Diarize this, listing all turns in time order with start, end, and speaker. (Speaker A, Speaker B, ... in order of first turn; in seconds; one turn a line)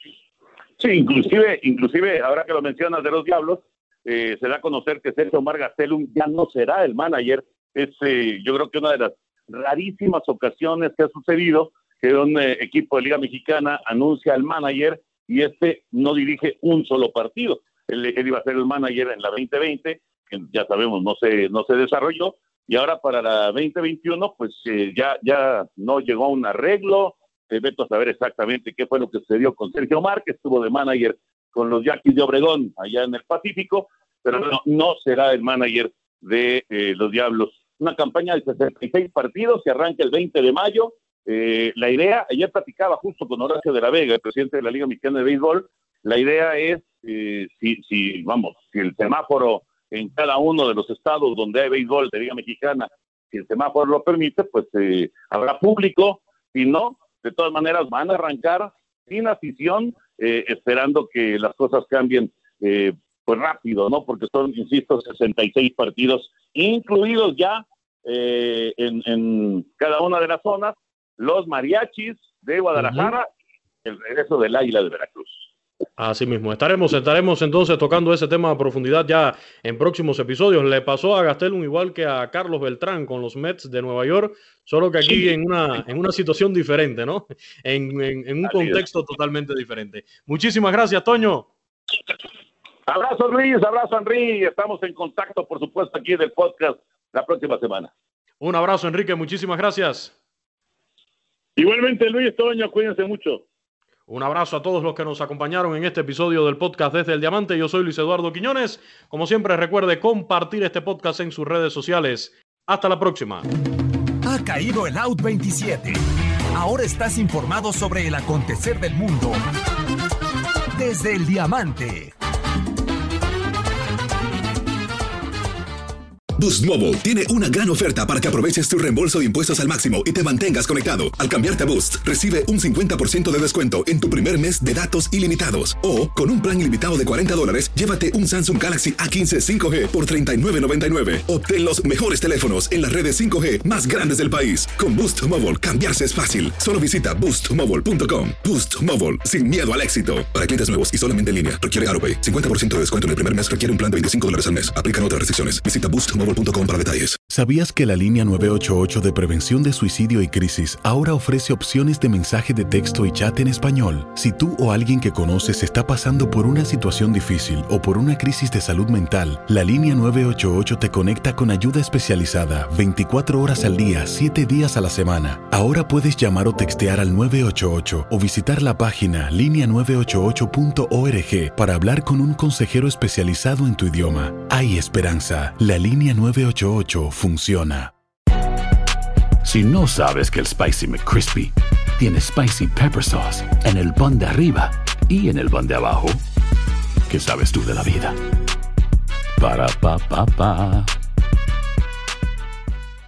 Speaker A: 0.8-73.3
Speaker B: 72.8-73.1
Speaker A: 73.8-75.5
Speaker B: 76.0-91.5
Speaker A: 88.5-88.8
Speaker A: 92.9-97.9
Speaker B: 98.4-100.2
Speaker A: 101.6-103.4
Speaker B: 104.1-113.5
Speaker C: 114.2-116.0
Speaker C: 116.5-119.4
Speaker C: 120.8-122.1
Speaker D: 126.4-157.2
Speaker E: 157.3-187.9
Speaker F: 189.4-196.2
Speaker F: 197.1-198.2
Speaker F: 199.4-200.9